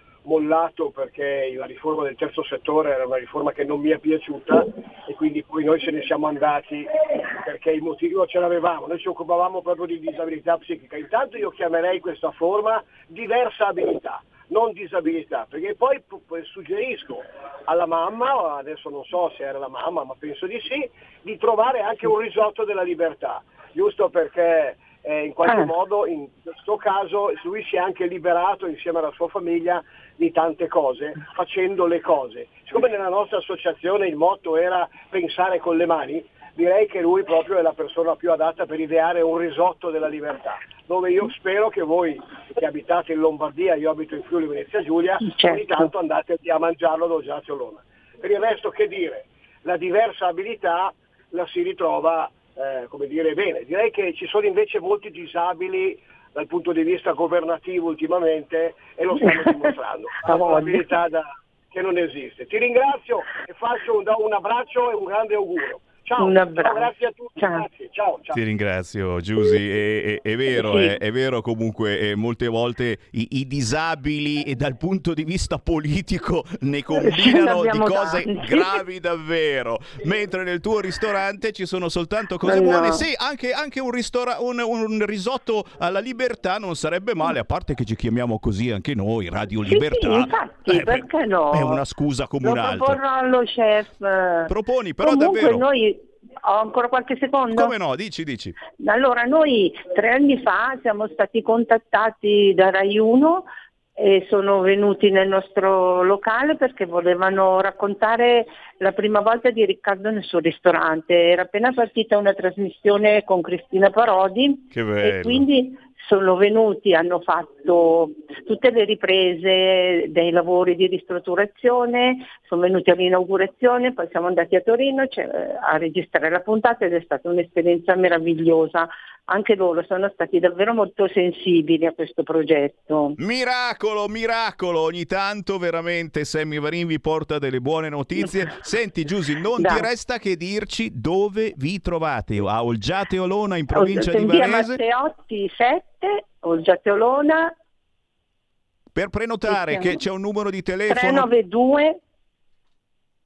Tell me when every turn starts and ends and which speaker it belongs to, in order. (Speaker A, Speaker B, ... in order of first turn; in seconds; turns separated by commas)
Speaker A: 0.2-68.4, Speaker B: 25.4-25.7, Speaker B: 45.2-45.9, Speaker B: 60.2-60.8, Speaker B: 66.2-67.6, Speaker C: 68.3-93.0, Speaker B: 70.5-70.9, Speaker B: 77.0-78.6, Speaker B: 82.4-83.0, Speaker B: 89.7-91.8, Speaker B: 92.4-97.7, Speaker C: 94.5-95.7, Speaker C: 97.5-98.5, Speaker B: 98.8-133.2, Speaker C: 114.7-115.4, Speaker C: 133.2-144.8, Speaker B: 139.6-139.8, Speaker B: 143.7-147.5, Speaker C: 148.9-151.3, Speaker B: 149.5-150.0, Speaker B: 150.9-152.0